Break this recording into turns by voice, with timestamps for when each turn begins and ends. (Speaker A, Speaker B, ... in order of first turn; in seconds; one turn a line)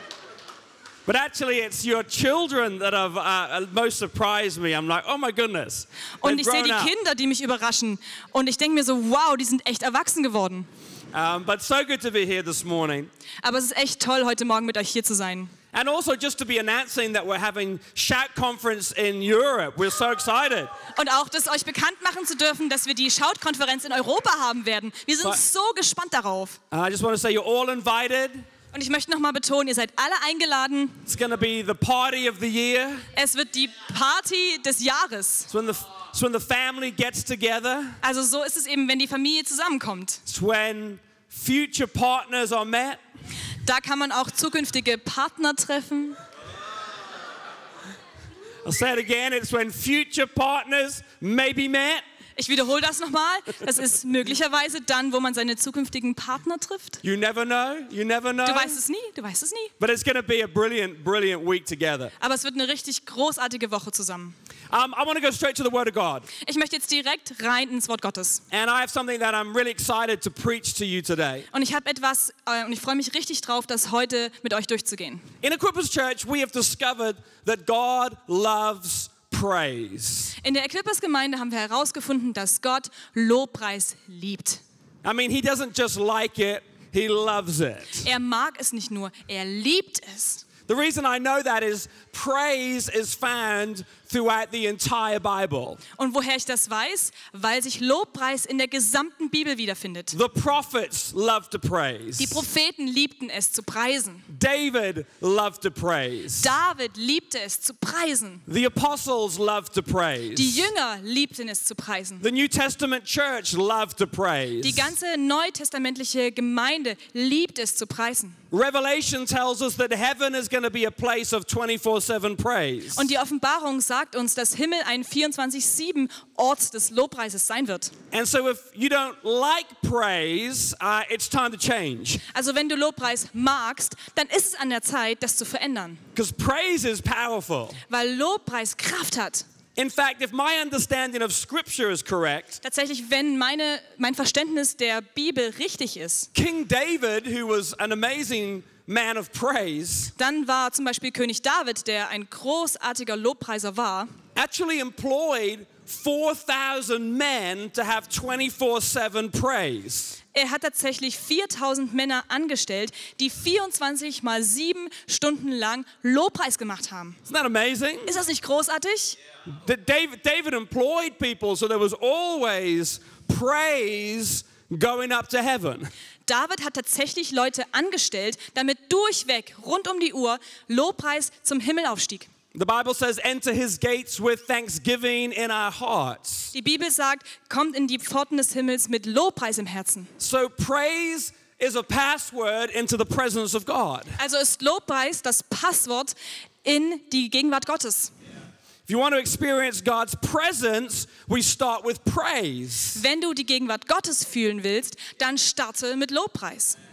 Speaker A: 1.1-6.9
Speaker B: 6.2-10.7
Speaker A: 11.1-13.1
Speaker B: 13.4-15.5
Speaker A: 15.7-20.7
Speaker B: 20.9-26.6
Speaker A: 26.7-28.4
Speaker B: 28.7-31.0
Speaker A: 31.1-33.1
Speaker B: 33.1-35.5
Speaker A: 35.5-38.0
Speaker B: 38.0-40.2
Speaker A: 40.3-43.0
Speaker B: 43.6-46.2
Speaker A: 48.6-52.0
Speaker B: 52.4-57.0
Speaker A: 57.0-58.8
Speaker B: 58.5-59.7
Speaker A: 59.8-62.1
Speaker B: 62.2-64.3
Speaker A: 64.7-66.3
Speaker B: 66.4-68.4
Speaker A: 68.5-71.5
Speaker B: 71.5-75.3
Speaker A: 75.4-80.3
Speaker B: 80.4-84.6
Speaker A: 85.0-88.1
Speaker B: 88.0-90.4
Speaker A: 90.7-95.8
Speaker B: 96.0-100.2
Speaker A: 100.1-102.4
Speaker B: 102.2-104.3
Speaker A: 104.3-106.5
Speaker B: 106.4-108.4
Speaker A: 108.5-110.7
Speaker B: 110.3-112.2
Speaker A: 112.2-114.9
Speaker B: 114.6-118.4
Speaker A: 118.5-123.1
Speaker B: 123.0-127.9
Speaker A: 128.1-132.2
Speaker B: 132.3-136.0
Speaker A: 136.2-137.8
Speaker B: 137.9-139.5
Speaker A: 139.8-142.6
Speaker B: 142.6-146.3
Speaker A: 146.3-150.1
Speaker B: 150.2-154.1
Speaker A: 154.4-160.2
Speaker B: 160.3-167.2
Speaker A: 167.3-168.2
Speaker B: 168.1-169.2
Speaker A: 169.5-175.9
Speaker B: 176.3-182.3
Speaker A: 182.5-186.5
Speaker B: 186.5-190.1
Speaker A: 190.2-194.2
Speaker B: 194.2-198.1
Speaker A: 198.9-203.0
Speaker B: 202.9-206.8